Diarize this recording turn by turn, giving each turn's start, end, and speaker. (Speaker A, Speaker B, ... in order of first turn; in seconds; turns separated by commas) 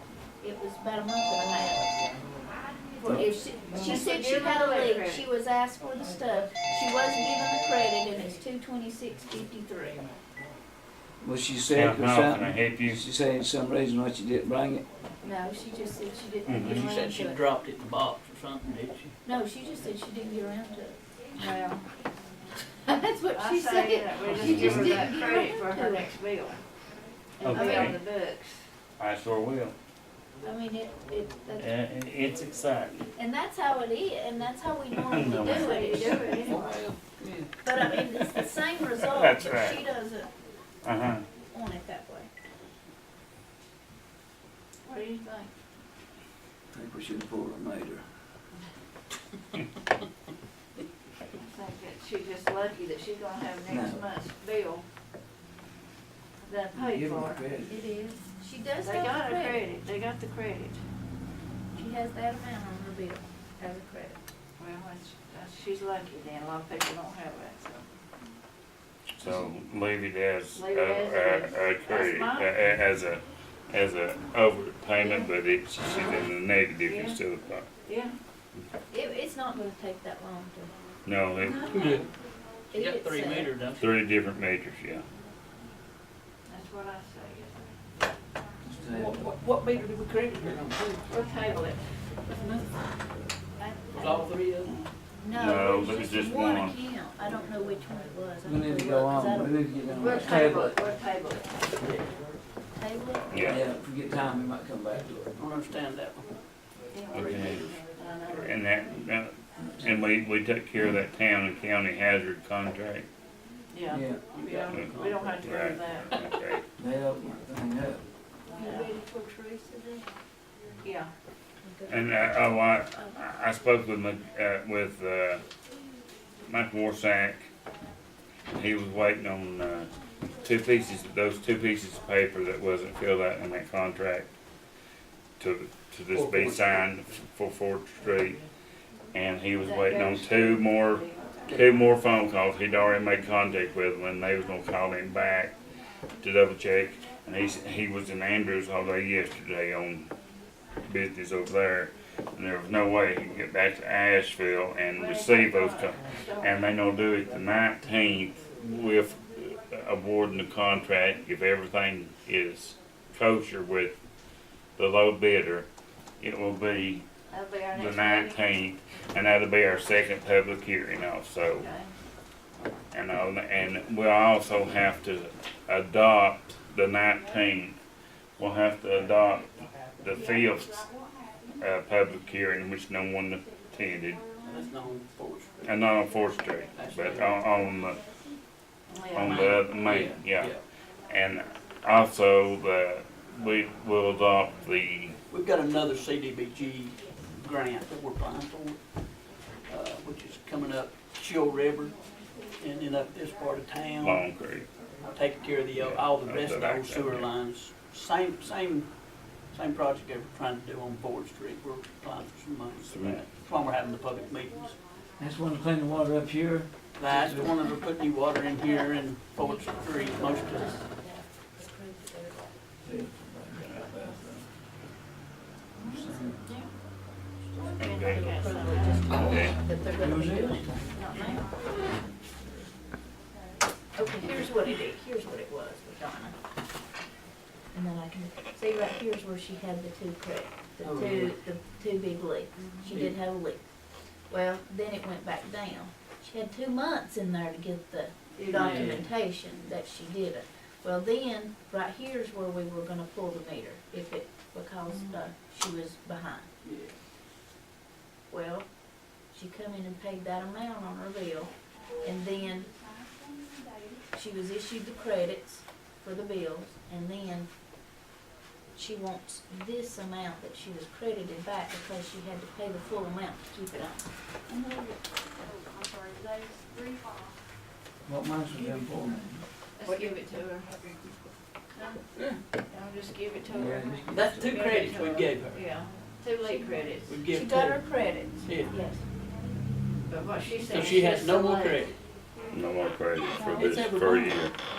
Speaker A: 0.4-1.9, Speaker A: 3.0-10.0, Speaker B: 3.7-5.2, Speaker C: 11.2-14.8, Speaker D: 11.7-13.1, Speaker A: 15.2-17.4, Speaker D: 16.5-16.9, Speaker E: 16.6-19.1, Speaker A: 19.2-21.0, Speaker B: 21.4-21.8, Speaker A: 22.9-26.1, Speaker B: 23.3-26.6, Speaker D: 24.2-25.1, Speaker B: 27.4-28.6, Speaker D: 27.4-28.0, Speaker A: 27.5-28.0, Speaker D: 29.0-29.8, Speaker A: 30.4-31.7, Speaker D: 31.6-33.1, Speaker A: 33.1-36.6, Speaker D: 35.0-36.2, Speaker B: 35.4-36.6, Speaker C: 36.5-37.5, Speaker A: 37.6-40.3, Speaker D: 39.0-39.8, Speaker D: 40.8-41.2, Speaker A: 41.5-42.3, Speaker B: 44.8-45.5, Speaker C: 46.7-48.0, Speaker B: 51.4-54.9, Speaker C: 53.7-54.0, Speaker B: 56.5-57.4, Speaker C: 56.8-57.8, Speaker A: 57.7-59.6, Speaker B: 58.8-60.8, Speaker A: 61.8-64.2, Speaker B: 64.6-67.8, Speaker D: 69.2-77.7, Speaker B: 70.5-72.5, Speaker B: 75.0-75.3, Speaker B: 76.8-77.2, Speaker B: 77.8-78.2, Speaker A: 78.9-80.7, Speaker D: 81.0-82.0, Speaker E: 81.6-82.1, Speaker A: 82.7-83.5, Speaker E: 82.7-83.9, Speaker D: 83.8-85.1, Speaker B: 86.5-87.7, Speaker C: 88.7-89.2, Speaker E: 88.8-91.2, Speaker B: 91.1-92.5, Speaker E: 92.3-92.7, Speaker A: 93.6-94.2, Speaker E: 93.9-94.8, Speaker D: 94.7-96.8, Speaker A: 95.2-100.6, Speaker C: 98.4-100.8, Speaker B: 100.0-101.6, Speaker E: 101.8-102.1, Speaker A: 102.8-103.6, Speaker D: 103.3-103.7, Speaker C: 103.5-105.4, Speaker E: 105.3-106.3, Speaker B: 106.9-108.6, Speaker E: 107.1-107.9, Speaker D: 107.1-107.7, Speaker D: 108.3-113.1, Speaker B: 113.7-116.2, Speaker C: 113.9-114.2, Speaker E: 114.3-115.5, Speaker D: 114.7-116.6, Speaker C: 116.8-118.0, Speaker A: 118.5-120.1, Speaker B: 118.6-118.9, Speaker B: 120.8-121.1, Speaker A: 121.6-122.1, Speaker D: 121.9-125.4, Speaker D: 126.5-127.5, Speaker D: 128.5-129.9, Speaker D: 130.4-134.3, Speaker D: 135.4-138.4, Speaker E: 136.1-136.9, Speaker D: 139.1-145.6, Speaker B: 139.6-141.5, Speaker E: 141.4-141.7, Speaker D: 146.2-150.1, Speaker D: 150.8-164.0, Speaker B: 154.9-156.6, Speaker D: 164.8-165.7, Speaker D: 166.2-167.1, Speaker B: 167.3-168.5, Speaker D: 167.7-171.7, Speaker B: 171.6-171.9, Speaker D: 172.9-177.8, Speaker D: 178.4-180.9, Speaker D: 181.6-184.4, Speaker E: 184.3-185.8, Speaker D: 185.6-188.0, Speaker E: 186.7-187.4, Speaker B: 188.9-189.7, Speaker D: 189.1-190.5, Speaker E: 189.2-190.6, Speaker D: 191.1-195.2, Speaker E: 195.3-198.8, Speaker E: 199.7-204.3, Speaker D: 204.0-204.7, Speaker E: 205.0-208.9, Speaker D: 205.8-207.3, Speaker E: 209.5-214.8, Speaker D: 212.9-213.2, Speaker C: 215.2-217.6, Speaker E: 216.9-220.8, Speaker A: 219.4-222.5, Speaker C: 222.8-224.4, Speaker C: 225.9-226.4, Speaker B: 226.4-226.7, Speaker B: 227.8-229.3, Speaker D: 227.8-228.3, Speaker A: 228.0-231.5, Speaker D: 229.1-229.6, Speaker C: 229.9-230.8, Speaker B: 231.0-231.4, Speaker A: 233.9-236.4, Speaker A: 237.7-243.7, Speaker E: 241.0-241.2, Speaker B: 242.6-242.9, Speaker A: 244.3-256.5, Speaker B: 248.4-248.9, Speaker E: 248.5-249.1, Speaker B: 254.9-255.2, Speaker E: 256.6-257.0, Speaker A: 258.3-262.7, Speaker A: 264.1-267.5, Speaker A: 268.7-274.1, Speaker E: 274.5-274.9, Speaker C: 278.1-279.4, Speaker B: 279.8-280.8, Speaker E: 279.9-280.2, Speaker B: 282.7-287.2, Speaker C: 283.5-284.8, Speaker E: 284.1-285.7, Speaker A: 286.4-289.0, Speaker E: 287.1-288.9, Speaker B: 290.1-291.9, Speaker E: 290.6-292.0, Speaker D: 292.5-294.5, Speaker A: 293.4-293.7, Speaker E: 293.4-294.4